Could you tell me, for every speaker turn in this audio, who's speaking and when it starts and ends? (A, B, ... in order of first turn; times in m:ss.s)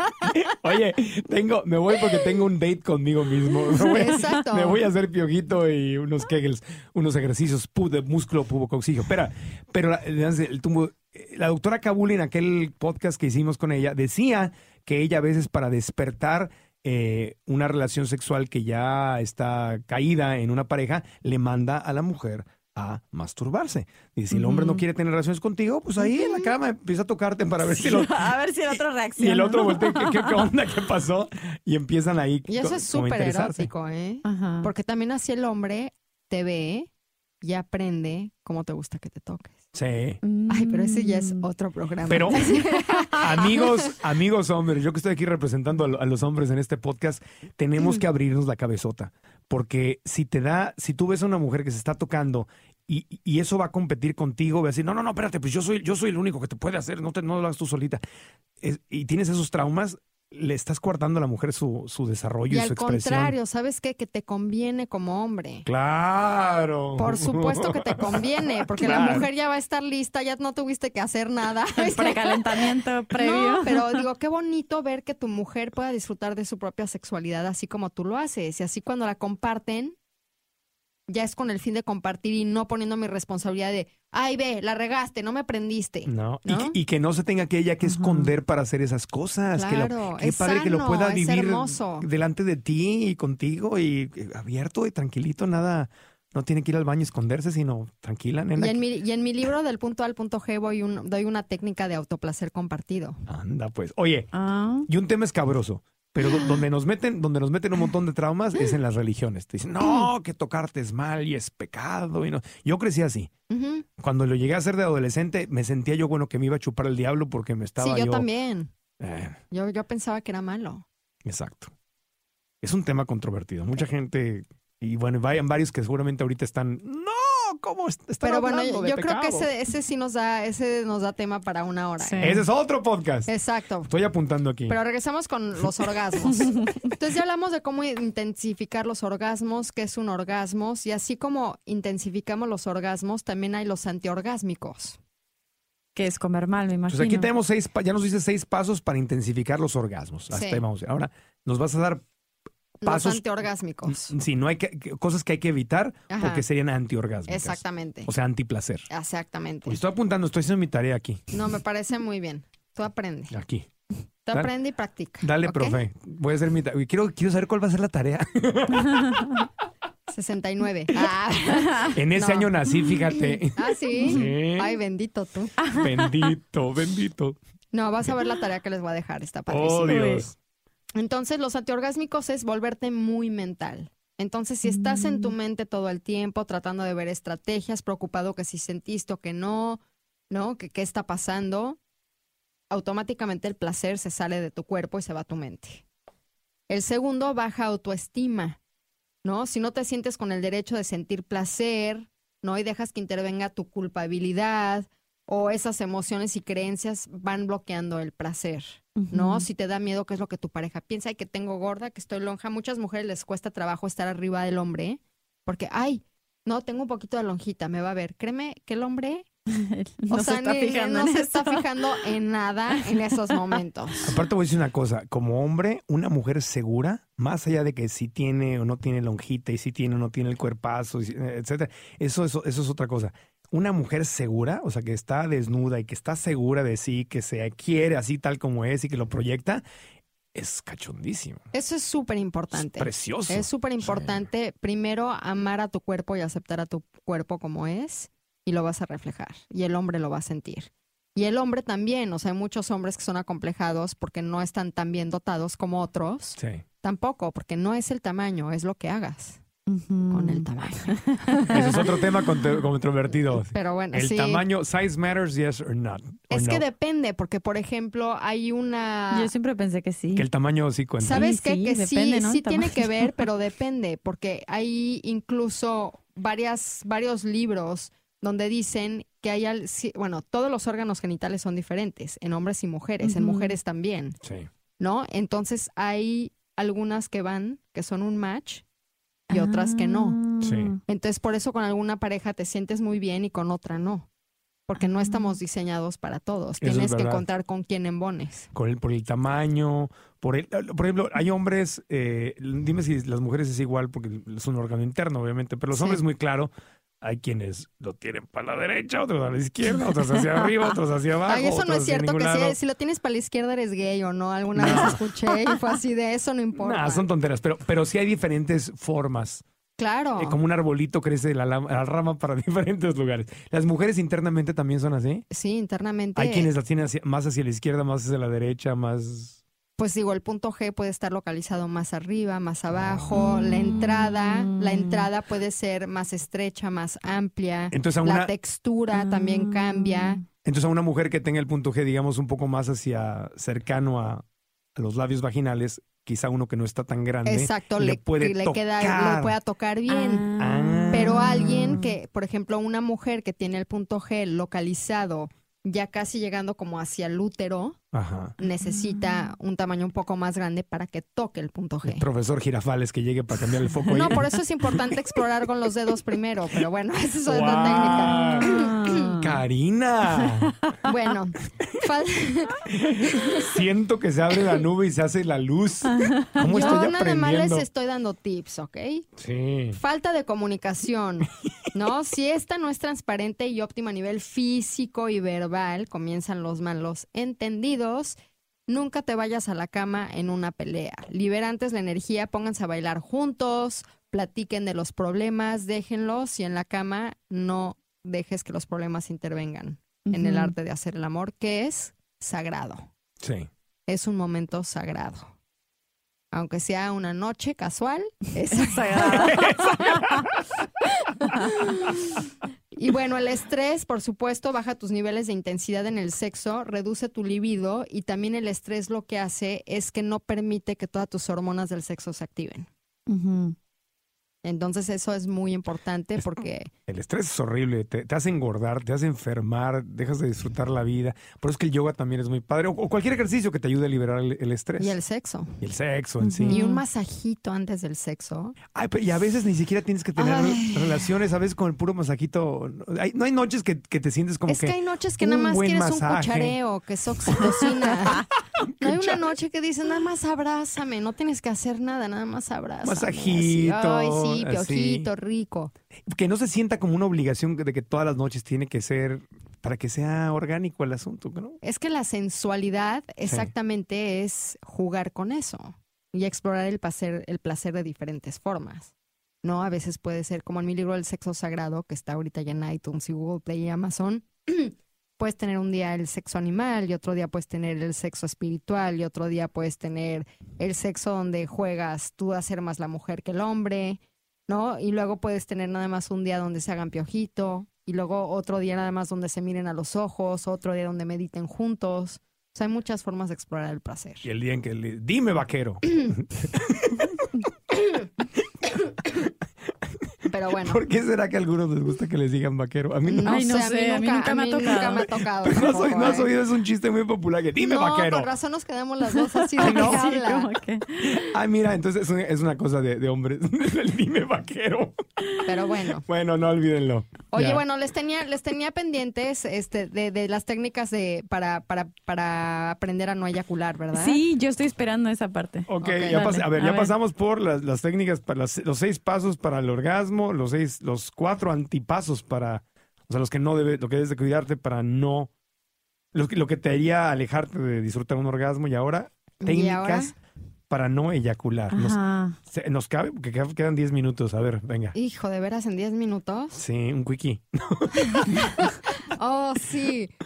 0:00.4-0:33.7 A
0:03.8-0:04.8 B
0:24.3-0:24.8 C
0:27.7-0:30.4 C
0:32.5-0:36.9 B
0:34.2-0:34.7 C
0:37.4-0:39.6 B
0:39.7-0:40.2 A
0:40.2-0:41.4 C
0:40.5-0:43.6 B
0:42.1-0:58.0 A
0:58.6-1:03.4 A
1:02.5-1:05.7 B
1:05.7-1:09.3 A
1:07.0-1:20.0 B
1:11.8-1:12.2 A
1:11.9-1:14.0 C
1:21.1-1:26.8 B
1:26.1-1:38.8 A
1:27.9-1:28.3 C
1:29.5-1:32.1 B
1:38.6-1:43.2 B
1:43.3-1:44.3 A
1:44.3-1:44.9 C
1:44.9-1:53.3 A
1:46.2-1:46.5 B
1:53.5-1:53.8 B
1:54.0-1:58.3 A
1:57.8-1:58.7 B
1:59.0-1:59.4 A
1:59.5-2:00.8 B
2:01.2-2:01.7 A
2:02.6-2:09.5 A
2:08.2-2:12.4 B
2:12.0-2:12.4 C
2:12.2-2:13.3 A
2:13.3-2:13.9 B
2:13.9-2:14.8 A
2:14.7-2:25.0 B
2:26.0-2:27.3 C
2:26.9-2:32.0 A
2:30.3-2:30.6 B
2:32.8-2:34.1 B
2:32.8-2:33.2 A
2:33.9-2:38.9 A
2:36.1-2:36.4 B
2:37.3-2:38.1 B
2:38.9-2:39.8 B
2:39.7-2:41.2 A
2:41.3-2:43.3 B
2:43.3-2:43.7 A
2:44.3-2:45.8 B
2:45.2-2:49.3 A
2:50.1-2:52.5 B
2:51.5-2:51.9 C
2:51.9-2:54.7 A
2:53.5-2:55.5 B
2:55.6-2:56.3 C
2:55.8-2:57.4 A
2:57.7-3:00.0 B
2:59.5-3:00.4 A
2:59.8-3:00.3 C
3:01.0-3:11.8 B
3:04.6-3:05.4 C
3:12.7-3:15.8 B
3:16.7-3:18.6 B
3:19.2-3:39.3 B
3:29.0-3:29.5 C
3:39.5-3:42.1 C
3:40.1-3:44.2 B
3:44.0-3:59.6 A
4:00.3-4:01.4 A
4:01.5-4:19.4 B
4:02.6-4:04.1 A
4:16.4-4:16.6 A
4:19.7-4:21.9 C
4:20.1-4:21.8 B
4:21.5-4:26.6 A
4:23.5-4:24.4 B
4:26.3-4:29.3 B
4:29.1-4:30.3 C
4:30.1-4:31.2 A
4:31.0-4:44.2 B
4:31.1-4:33.2 C
4:43.0-4:43.6 C
4:44.2-4:44.5 A
4:44.8-4:48.6 B
4:49.3-4:50.2 B
4:49.3-4:50.8 C
4:50.4-4:50.8 A
4:50.9-4:54.1 B
4:54.7-4:58.5 B
4:54.8-4:55.4 C
4:56.6-4:57.3 A
4:58.5-5:12.6 A
5:05.7-5:06.0 B
5:11.3-5:17.1 B
5:14.6-5:15.0 A
5:16.6-5:19.4 A
5:19.8-5:20.4 B
5:20.2-5:25.3 A
5:25.3-5:26.5 B
5:26.2-5:29.4 A
5:29.8-5:40.2 B
5:33.1-5:35.1 C
5:37.7-5:38.3 A
5:38.9-5:40.2 C
5:40.4-5:44.2 A
5:44.8-5:49.4 A
5:47.2-5:50.3 B
5:49.9-5:51.9 C
5:50.4-5:51.7 A
5:50.9-5:57.8 B
5:57.9-5:58.4 A
5:58.4-6:02.1 B
5:58.6-5:59.3 C
6:01.8-6:04.2 A
6:03.9-6:09.1 B
6:07.3-6:08.6 A
6:07.7-6:09.4 C
6:09.2-6:10.6 A
6:10.2-6:10.9 C
6:10.8-6:12.6 B
6:12.6-6:17.7 A
6:15.8-6:16.8 C
6:16.4-6:19.1 B
6:19.2-6:19.8 A
6:19.7-6:42.9 B
6:40.0-6:40.6 C
6:43.2-6:43.5 A
6:43.9-6:45.3 B
6:46.3-6:49.7 B
6:48.5-6:50.2 C
6:49.1-6:50.3 A
6:51.2-6:51.9 B
6:52.7-7:02.7 B
7:03.1-7:03.6 C
7:04.4-7:06.7 B
7:06.9-7:15.0 A
7:14.8-7:15.6 B
7:15.6-7:16.6 A
7:16.2-7:16.8 C
7:16.5-7:18.6 B
7:18.7-7:26.6 A
7:20.2-7:21.0 B
7:24.5-7:28.3 B
7:27.3-7:28.2 A
7:28.8-7:35.7 B
7:28.8-7:29.2 A
7:32.8-7:35.1 A
7:36.1-7:41.6 A
7:41.6-7:48.9 B
7:43.3-7:43.5 A
7:49.4-8:14.3 B
8:14.2-8:17.1 A
8:20.3-8:20.8 B
8:20.6-8:23.4 A
8:23.1-8:26.3 B
8:23.2-8:25.1 C
8:25.4-8:28.3 A
8:27.6-8:30.5 B
8:29.1-8:31.3 C
8:29.6-8:30.0 A
8:31.1-8:35.0 A
8:35.4-8:36.0 B
8:36.0-8:37.6 A
8:37.3-8:44.2 B
8:43.9-8:46.9 C
8:45.7-8:55.3 A
8:45.8-8:46.2 B
8:56.1-9:00.2 A
8:59.4-9:00.2 B
9:00.7-9:05.0 A
9:01.7-9:02.4 C
9:05.0-9:06.6 B
9:06.6-9:08.5 A
9:09.0-9:10.1 B